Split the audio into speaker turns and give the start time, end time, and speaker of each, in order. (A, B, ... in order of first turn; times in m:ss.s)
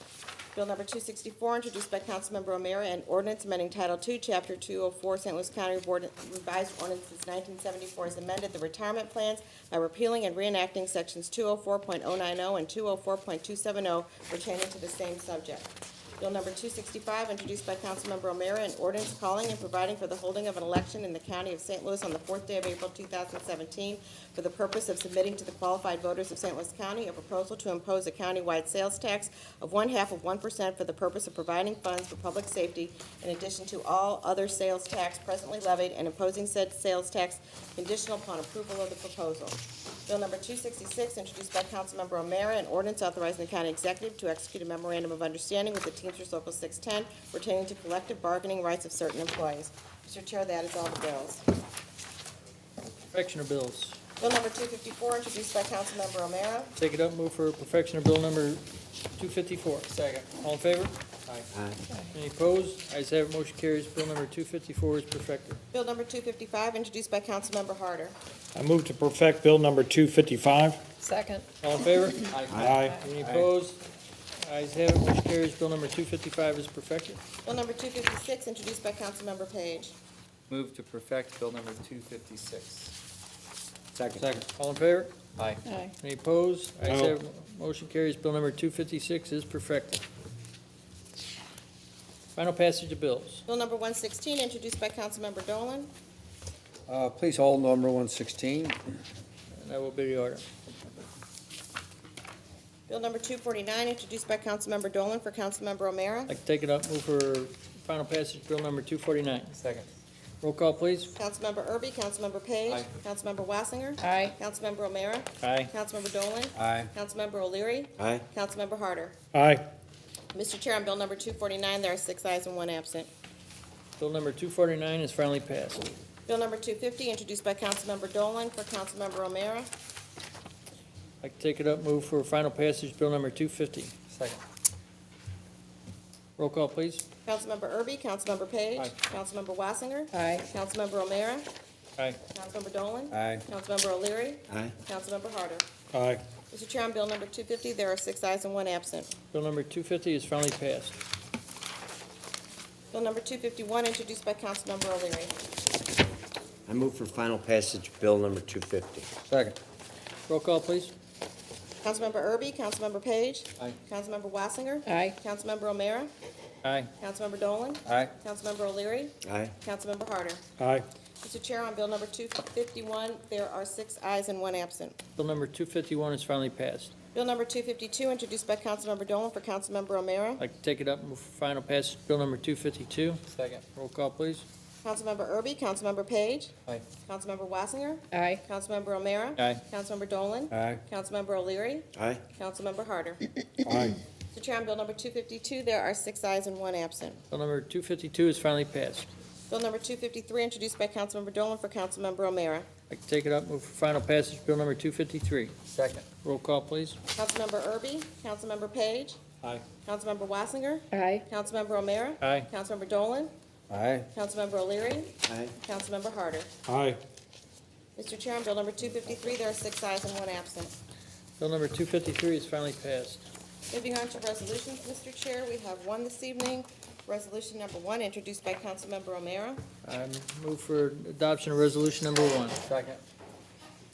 0:00.5-0:51.4 A
0:53.1-0:54.0 B
0:54.2-0:56.7 A
0:56.8-0:58.6 B
0:59.1-0:59.9 B
0:59.9-1:00.3 C
1:00.4-1:00.9 B
1:01.5-1:01.8 D
1:02.1-1:05.6 B
1:05.7-1:08.2 A
1:08.5-1:10.8 E
1:11.0-1:11.5 F
1:11.6-1:12.4 B
1:12.3-1:13.4 C
1:12.5-1:12.8 D
1:12.6-1:13.0 E
1:13.0-1:13.8 B
1:14.4-1:17.2 B
1:17.4-1:20.0 A
1:20.5-1:22.9 C
1:23.9-1:24.3 C
1:24.2-1:25.1 B
1:25.4-1:25.6 C
1:25.6-1:25.9 F
1:26.0-1:30.0 B
1:26.8-1:27.2 E
1:32.3-1:33.4 B
1:33.5-1:35.9 A
1:36.9-1:38.8 G
1:39.5-1:40.4 B
1:42.9-1:46.3 A
1:46.3-1:49.5 B
1:49.6-1:49.9 C
1:50.4-1:51.1 B
1:51.2-1:59.1 A
1:54.0-1:54.4 F
1:55.4-1:55.7 B
1:56.6-1:56.9 G
1:58.0-1:58.2 D
1:59.3-1:59.6 E
2:00.3-2:03.1 A
2:04.0-2:05.9 B
2:06.3-2:09.7 A
2:11.2-2:13.9 B
2:14.1-2:14.4 C
2:16.4-2:17.0 B
2:17.2-2:21.5 A
2:20.1-2:20.4 F
2:22.3-2:25.6 A
2:23.1-2:23.4 G
2:25.9-2:26.2 E
2:26.5-2:29.1 A
2:29.3-2:31.0 B
2:32.9-2:35.3 A
2:36.7-2:39.1 D
2:40.3-2:40.9 B
2:41.8-2:46.1 A
2:44.8-2:45.2 F
2:46.6-2:46.9 B
2:47.0-2:50.4 A
2:49.2-2:49.5 D
2:50.6-2:50.8 E
2:51.2-2:55.0 A
2:55.2-2:56.9 B
2:57.1-3:00.4 A
3:00.4-3:03.2 B
3:03.3-3:03.6 C
3:03.7-3:04.4 B
3:04.8-3:06.5 A
3:07.0-3:13.2 A
3:08.1-3:08.4 F
3:10.5-3:10.8 G
3:11.9-3:12.2 D
3:13.7-3:13.9 E
3:14.3-3:17.2 A
3:17.3-3:19.1 B
3:19.5-3:22.7 A
3:22.9-3:25.5 B
3:25.7-3:26.0 C
3:26.2-3:27.0 B
3:27.1-3:29.2 A
3:29.8-3:33.3 A
3:30.9-3:31.2 F
3:32.2-3:32.5 B
3:33.7-3:34.1 G
3:34.1-3:36.5 A
3:35.3-3:35.5 D
3:36.7-3:37.0 E
3:38.0-3:40.7 A
3:41.4-3:43.2 B
3:43.7-3:49.6 A
3:49.8-3:52.6 B
3:52.6-3:53.0 C